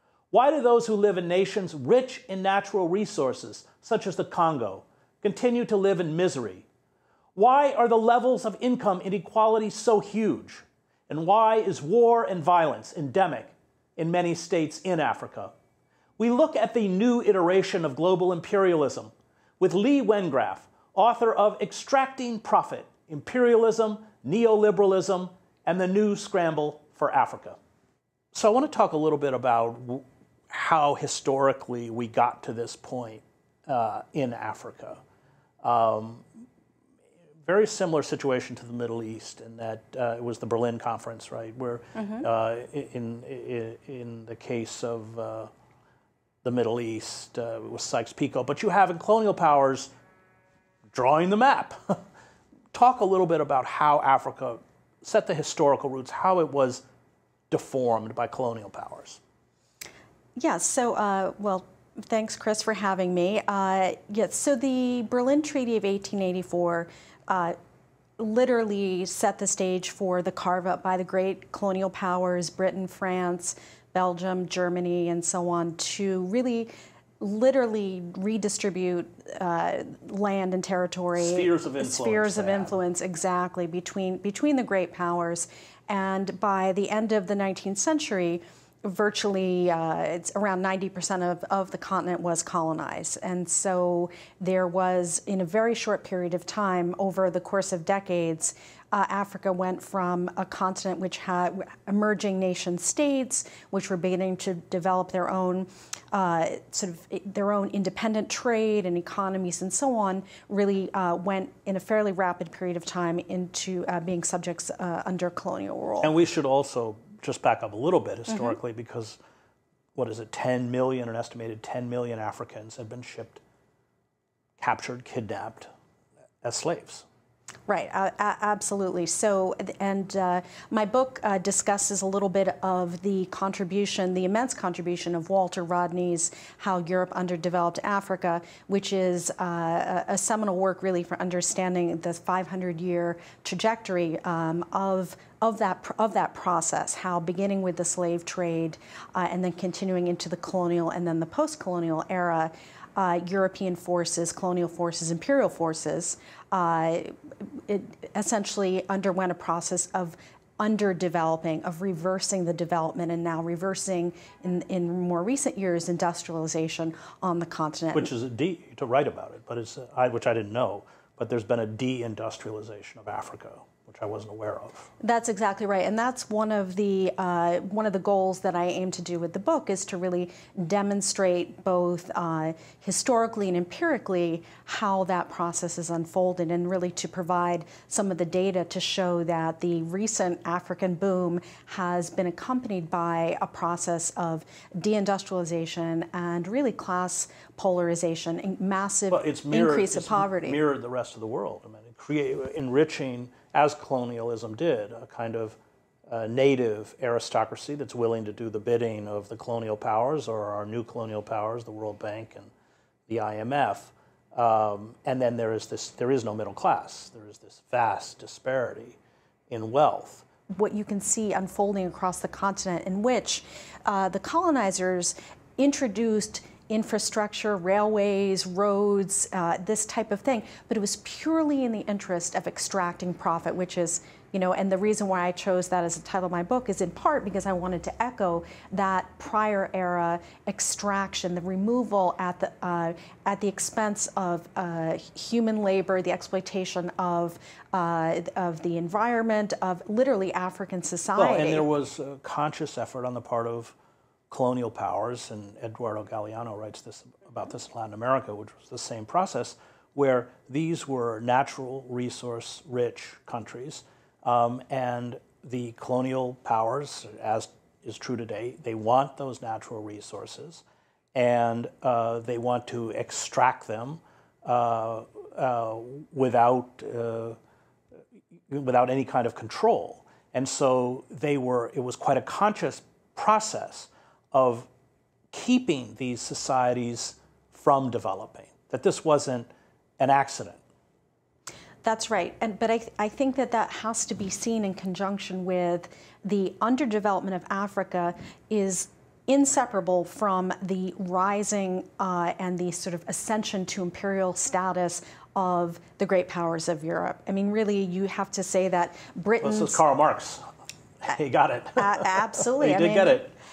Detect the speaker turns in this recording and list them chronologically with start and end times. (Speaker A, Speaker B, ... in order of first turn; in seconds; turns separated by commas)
Speaker A: 0.3-6.7, Speaker A: 7.3-15.5, Speaker A: 16.2-27.6, Speaker A: 28.3-35.0, Speaker A: 35.6-36.2, Speaker A: 37.4-45.5, Speaker B: 42.0-42.2, Speaker A: 46.4-49.9, Speaker A: 50.9-52.0, Speaker A: 52.7-56.8, Speaker A: 57.5-59.2, Speaker B: 60.4-67.5, Speaker B: 68.2-116.1, Speaker A: 81.1-82.8, Speaker A: 116.0-119.2, Speaker B: 118.3-118.5, Speaker A: 120.0-123.4, Speaker A: 124.6-125.7, Speaker A: 126.4-127.0, Speaker B: 127.7-168.1, Speaker A: 167.9-174.9, Speaker B: 175.0-200.6, Speaker A: 199.1-212.5, Speaker A: 213.1-219.0, Speaker A: 219.5-220.2, Speaker B: 220.6-251.7, Speaker A: 251.2-253.8, Speaker A: 254.3-270.6, Speaker A: 271.1-277.4, Speaker A: 278.5-284.7, Speaker A: 285.3-290.6, Speaker B: 291.8-309.8, Speaker A: 309.4-310.4, Speaker A: 311.0-313.3, Speaker B: 311.8-313.2